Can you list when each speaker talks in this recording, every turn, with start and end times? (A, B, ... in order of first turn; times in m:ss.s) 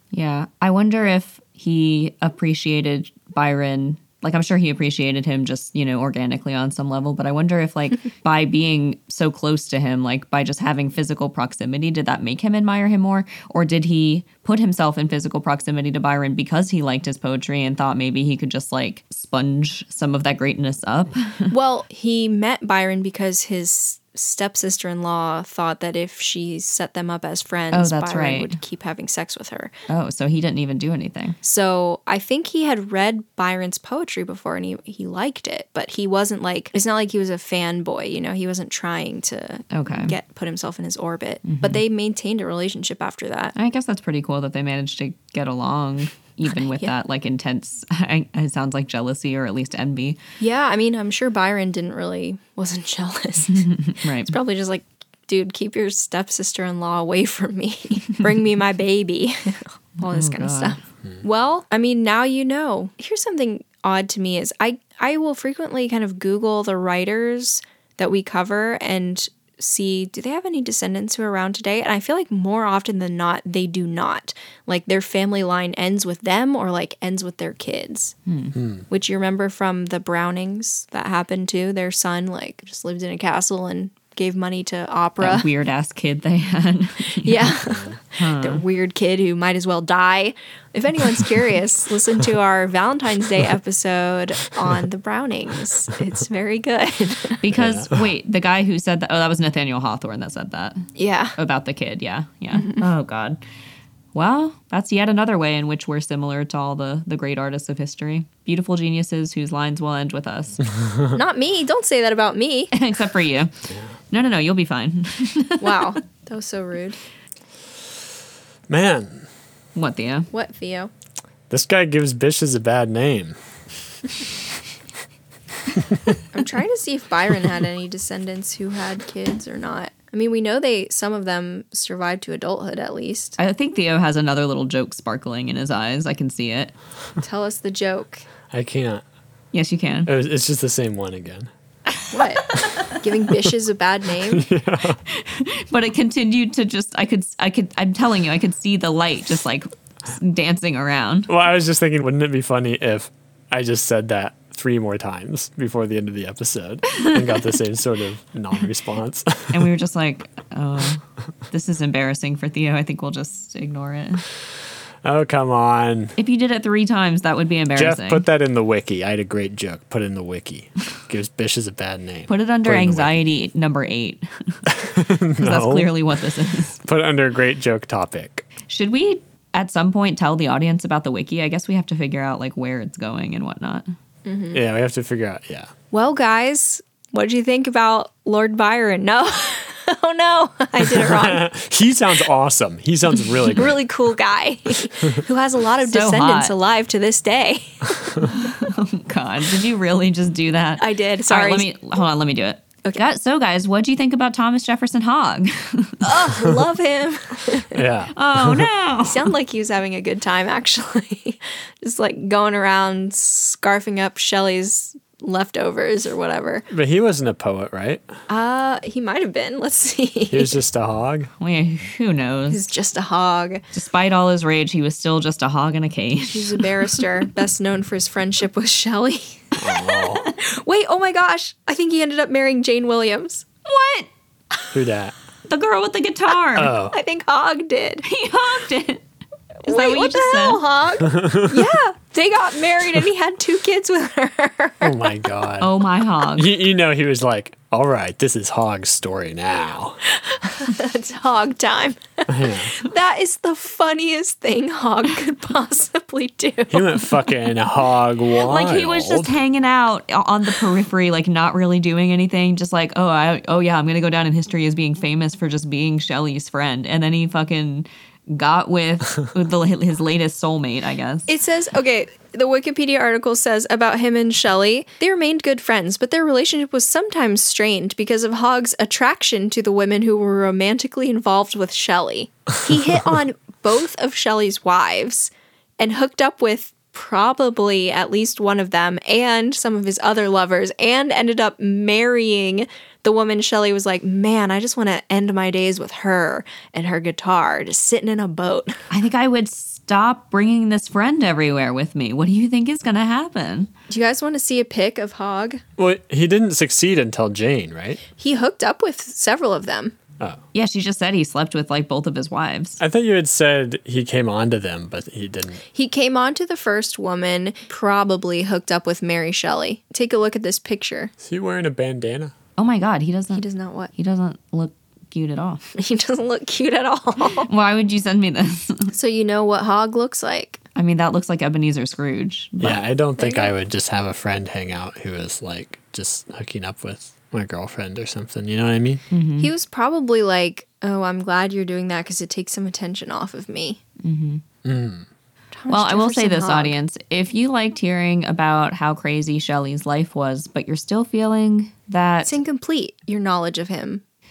0:00.1-0:21.5 A
0:21.5-0:29.7 B
0:27.7-0:28.5 A
0:29.9-0:31.4 A
0:31.4-0:43.5 B
0:39.7-0:40.2 A
0:41.4-0:41.8 A
0:43.6-0:50.2 A
0:46.5-0:46.9 B
0:50.4-0:53.7 B
0:53.5-0:54.4 A
0:54.3-1:18.2 B
1:00.0-1:00.8 A
1:18.3-1:18.6 A
1:18.6-1:18.8 C
1:18.9-1:25.5 B
1:25.2-1:27.5 A
1:27.2-1:37.4 B
1:27.7-1:27.9 C
1:28.2-1:28.6 A
1:37.4-1:40.8 A
1:37.5-1:38.0 C
1:41.0-1:41.4 B
1:41.4-1:43.4 A
1:42.5-1:42.9 B
1:44.1-1:50.6 A
1:50.8-1:51.2 C
1:51.1-1:52.8 B
1:52.7-1:53.5 A
1:54.1-1:56.0 A
1:55.6-1:57.0 B
1:58.7-1:59.3 C
1:59.8-2:00.3 A
2:00.3-2:00.9 B
2:01.5-2:03.4 C
2:06.3-2:13.4 B
2:13.4-2:16.7 A
2:17.2-2:18.3 B
2:18.5-2:19.0 C
2:19.5-2:20.1 A
2:20.1-2:21.5 C
2:22.1-2:24.4 B
2:22.2-2:23.0 A
2:24.3-2:25.0 C
2:25.1-2:31.3 A
2:31.3-2:39.7 C
2:39.5-2:44.2 A
2:45.0-2:46.2 C
2:46.2-2:48.2 A
2:47.8-2:53.2 C
2:52.3-2:54.6 A
2:54.7-2:55.9 C
2:55.4-2:56.8 A
2:56.8-2:58.5 C
2:58.7-3:03.9 A
3:04.2-3:04.6 B
3:04.5-3:05.7 C
3:05.9-3:11.4 B
3:10.8-3:13.8 C
3:13.5-3:18.2 B
3:15.8-3:16.6 A
3:18.2-3:26.2 A
3:20.8-3:21.7 B
3:26.0-3:27.8 B
3:27.7-3:28.7 C
3:28.1-3:29.3 A
3:29.0-3:36.6 B
3:36.7-3:38.1 C
3:38.3-3:40.6 B
3:40.3-3:41.3 C
3:41.4-3:42.6 A
3:42.5-3:43.7 B
3:43.7-3:46.7 A
3:46.3-3:53.5 B
3:49.6-3:50.3 C
3:53.6-3:54.1 A
3:54.7-3:55.1 C
3:55.5-3:56.7 A
3:56.6-3:56.9 C
3:56.8-3:58.0 B
3:58.0-3:59.0 A
3:59.6-4:05.0 B
3:59.6-4:00.6 A
4:01.1-4:01.6 C
4:04.8-4:05.8 C
4:05.6-4:06.5 A
4:06.3-4:10.0 C
4:10.1-4:17.2 B
4:12.3-4:12.8 C
4:16.7-4:19.4 C
4:18.3-4:31.3 A
4:31.3-4:58.8 B
4:58.9-5:03.7 A
5:03.9-5:05.6 B
5:05.8-5:08.0 C
5:08.2-5:10.0 B
5:10.5-5:12.8 A
5:12.8-5:15.6 C
5:15.7-5:21.1 B
5:21.2-5:22.3 C
5:22.6-5:25.6 A
5:23.3-5:23.9 B
5:25.8-5:27.5 B
5:27.4-5:28.9 A
5:28.9-5:30.6 B
5:30.8-5:32.8 A
5:32.6-5:39.0 C
5:33.2-5:33.5 B
5:39.1-5:39.5 A
5:39.4-5:43.8 B
5:44.0-5:44.4 A
5:44.6-5:45.1 C
5:45.5-5:46.8 B
5:45.7-5:52.4 A
5:52.2-5:54.0 B